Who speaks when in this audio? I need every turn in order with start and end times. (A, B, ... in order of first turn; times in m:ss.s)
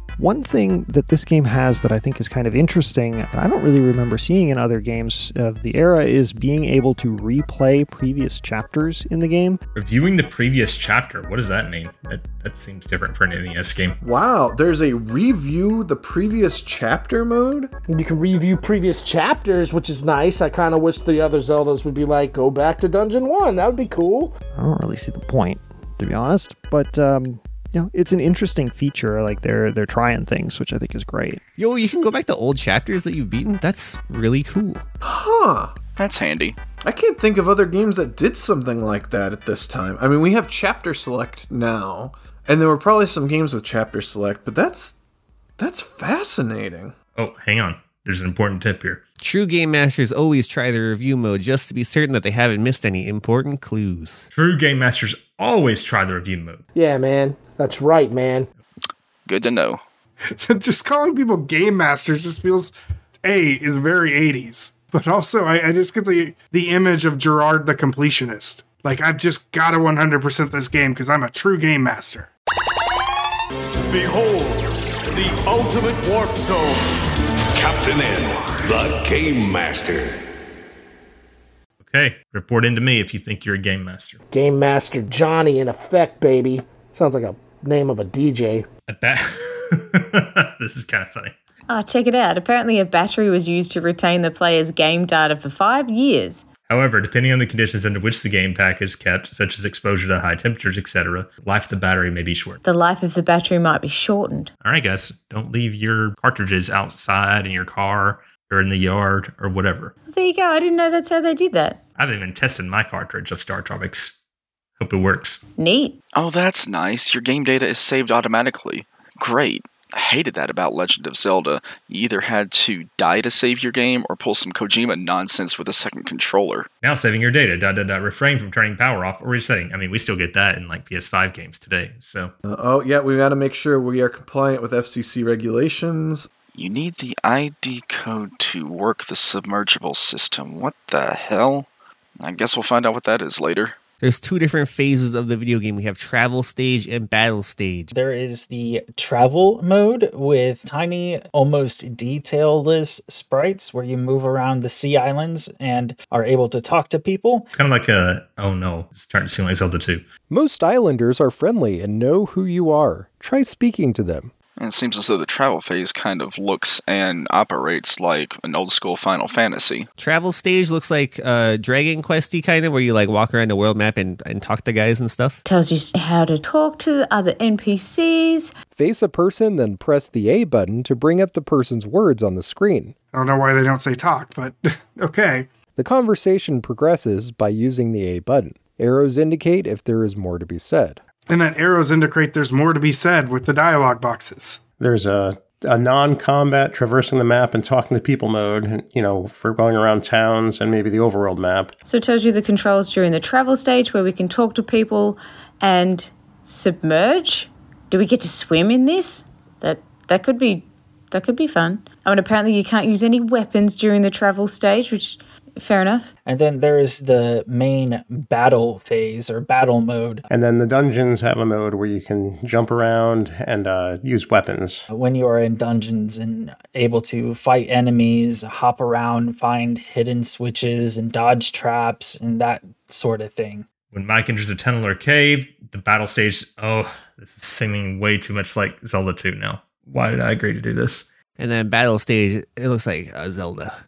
0:00.2-0:09.6 A
0:09.7-0:14.0 B
0:14.0-0:17.7 C
0:17.9-0:24.3 D
0:24.5-0:31.4 A
0:31.6-0:34.8 E
0:35.0-0:35.7 C
0:36.0-0:36.6 F
0:36.8-0:45.0 C
0:45.6-0:47.0 C
0:47.2-0:49.0 B
0:49.2-0:54.2 E
0:54.3-0:56.6 B
0:56.8-0:58.5 D
0:59.2-0:59.8 F
1:00.3-1:12.3 G
1:13.8-1:16.9 H
1:17.5-1:20.2 H
1:21.8-1:24.2 B
1:24.3-1:28.7 D
1:28.9-1:31.3 B
1:31.7-1:36.4 I
1:36.7-1:42.6 B
1:42.6-1:44.5 I
1:44.6-1:49.9 B
1:50.1-1:51.8 I
1:52.0-1:54.1 B
1:54.8-1:55.4 B
1:55.6-1:56.0 I
1:56.1-2:06.7 F
2:06.8-2:12.3 B
2:12.4-2:16.3 C
2:16.5-2:21.7 F
2:22.2-2:23.8 F
2:24.0-2:27.9 E
2:27.9-2:37.5 J
2:37.5-2:40.0 B
2:40.3-2:44.3 K
2:44.6-2:49.9 F
2:50.0-2:55.4 E
2:55.4-2:58.5 I
2:58.7-3:02.9 K
3:03.1-3:05.5 G
3:05.8-3:11.0 K
3:11.3-3:14.6 G
3:14.8-3:21.7 L
3:21.8-3:36.1 I
3:36.2-3:40.2 J
3:40.3-3:44.8 L
3:44.9-3:53.6 J
3:53.9-4:01.0 B
4:01.4-4:03.8 E